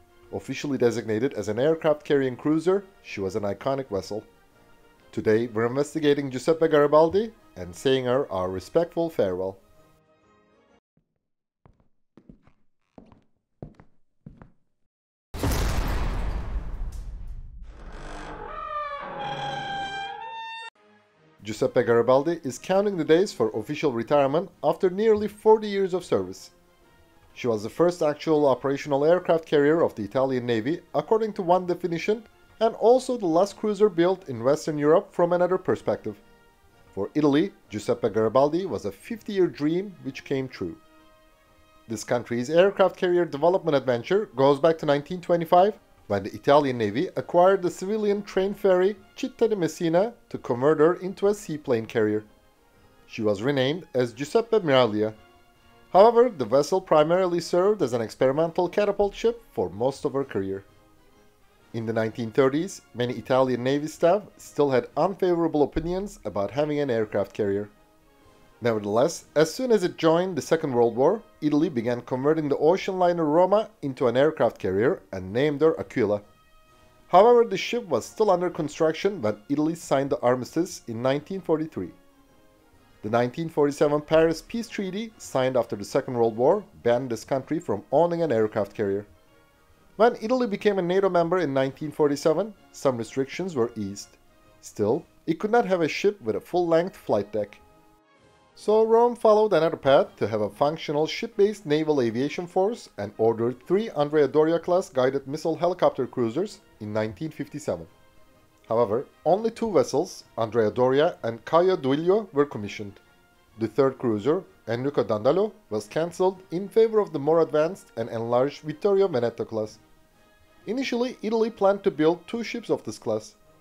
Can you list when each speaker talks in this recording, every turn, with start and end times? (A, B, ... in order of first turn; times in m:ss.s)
0:00.3-0:04.3 A
0:05.1-0:09.6 A
0:21.4-0:26.5 A
0:27.3-0:36.2 A
0:36.9-0:40.8 A
0:41.9-0:52.3 A
0:53.1-0:55.2 A
0:55.9-1:00.7 A
1:01.7-1:07.7 A
1:08.6-1:16.2 A
1:17.1-1:22.0 A
1:23.0-1:29.1 A
1:30.0-1:37.6 A
1:38.6-1:47.9 A
1:48.7-1:53.0 A
1:53.6-1:59.8 A
2:00.7-2:03.4 A